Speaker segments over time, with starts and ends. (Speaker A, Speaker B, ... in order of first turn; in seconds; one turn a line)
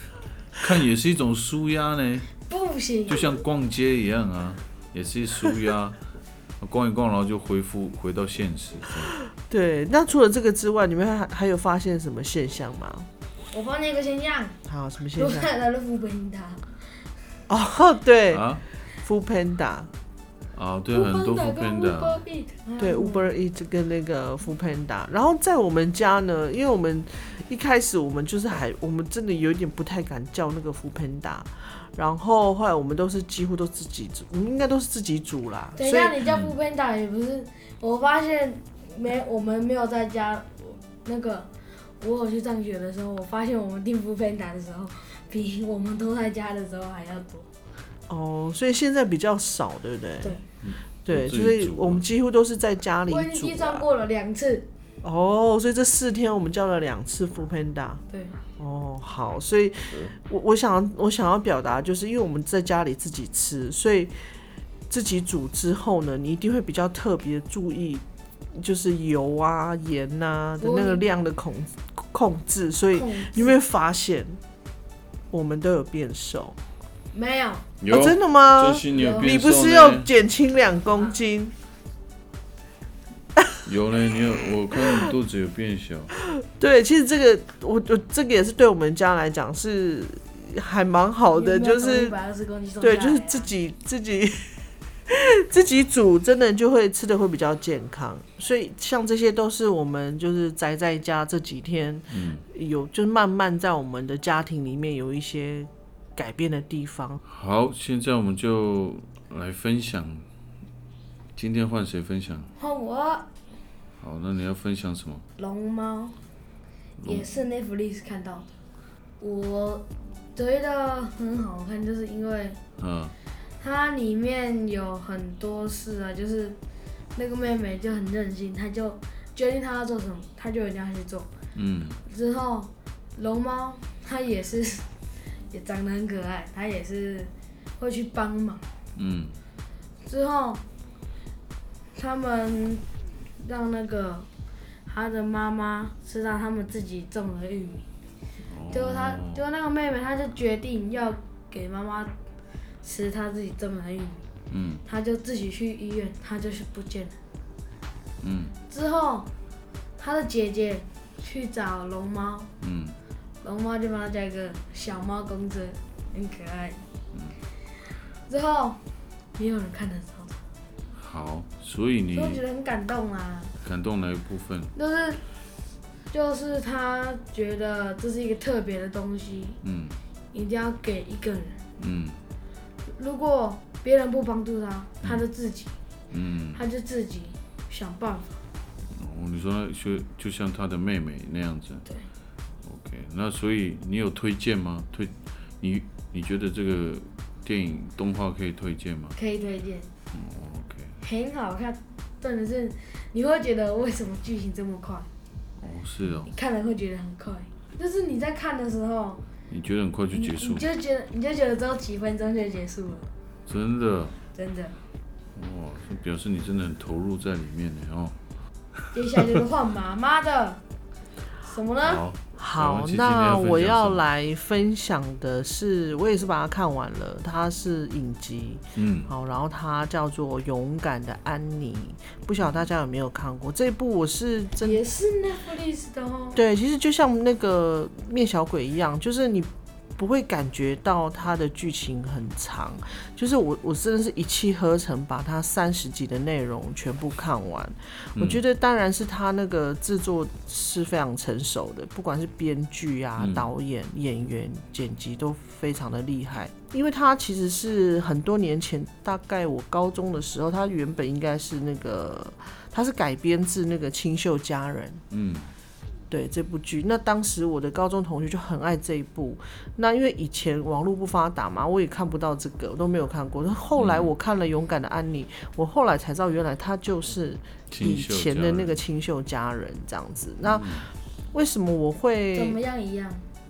Speaker A: 0.6-2.3
Speaker B: 2.5-3.4
Speaker A: 3.1-6.0
Speaker A: 6.6-9.1
Speaker C: 9.4-13.1
Speaker B: 13.5-14.6
Speaker C: 14.7-15.5
Speaker B: 15.2-16.7
Speaker C: 17.5-18.4
Speaker A: 18.3-18.6
Speaker C: 19.0-19.9
Speaker A: 20.5-22.2
Speaker B: 20.9-23.3
Speaker C: 22.8-36.1
Speaker B: 35.8-41.5
Speaker A: 36.2-36.6
Speaker B: 42.0-47.5
Speaker C: 48.1-50.4
Speaker A: 50.6-52.0
Speaker C: 51.0-53.9
Speaker B: 53.1-54.7
Speaker C: 55.0-58.0
Speaker B: 58.1-58.4
Speaker C: 58.6-64.4
Speaker C: 64.9-74.4
Speaker B: 70.6-71.0
Speaker B: 72.9-73.6
Speaker C: 75.3-76.5
Speaker B: 77.1-77.7
Speaker A: 77.8-80.1
Speaker C: 77.9-81.5
Speaker B: 78.9-79.4
Speaker A: 83.7-86.1
Speaker C: 86.4-92.1
Speaker B: 91.3-93.5
Speaker C: 92.8-94.5
Speaker C: 95.1-107.2
Speaker A: 102.1-102.4
Speaker A: 107.2-110.3
Speaker A: 111.4-112.5
Speaker B: 112.6-113.3
Speaker A: 114.0-115.2
Speaker B: 115.4-116.2
Speaker A: 117.0-117.3
Speaker B: 117.0-118.5
Speaker B: 119.2-122.6
Speaker A: 122.8-123.1
Speaker B: 123.6-126.6
Speaker B: 127.1-131.3
Speaker A: 131.5-132.0
Speaker B: 132.1-134.9
Speaker B: 135.5-138.7
Speaker A: 138.9-139.4
Speaker B: 140.0-140.6
Speaker B: 141.9-142.8
Speaker B: 143.4-144.3
Speaker B: 144.9-147.9
Speaker A: 148.4-149.4
Speaker B: 148.7-152.1
Speaker B: 152.8-154.2
Speaker A: 154.5-154.8
Speaker B: 154.8-157.2
Speaker A: 158.2-158.5
Speaker B: 158.7-159.3
Speaker B: 160.0-162.5
Speaker A: 162.6-162.9
Speaker B: 163.4-166.9
Speaker A: 167.1-167.4
Speaker B: 168.3-168.8
Speaker B: 169.4-170.4
Speaker A: 170.9-172.4
Speaker B: 172.1-173.5
Speaker A: 173.6-174.7
Speaker B: 174.8-175.2
Speaker B: 176.1-179.6
Speaker A: 179.6-180.0
Speaker B: 180.3-181.6
Speaker A: 181.8-182.2
Speaker B: 182.9-185.7
Speaker A: 186.1-186.6
Speaker B: 186.5-188.4
Speaker A: 188.9-191.8
Speaker A: 192.6-199.1
Speaker B: 199.2-199.9
Speaker A: 200.1-201.0
Speaker B: 201.0-205.1
Speaker A: 205.6-206.3
Speaker B: 206.2-209.2
Speaker A: 209.5-210.6
Speaker B: 210.1-213.1
Speaker A: 213.4-214.2
Speaker B: 214.3-214.8
Speaker A: 215.3-218.2
Speaker B: 218.9-220.6
Speaker B: 221.4-222.0
Speaker A: 221.8-224.0
Speaker C: 222.4-234.8
Speaker A: 228.8-229.1
Speaker B: 234.6-236.4
Speaker C: 236.3-265.0
Speaker A: 248.2-248.4
Speaker A: 253.2-253.5
Speaker A: 265.1-265.5
Speaker C: 266.1-282.6
Speaker A: 273.8-274.1
Speaker A: 277.7-278.8
Speaker A: 280.4-280.9
Speaker B: 282.3-283.2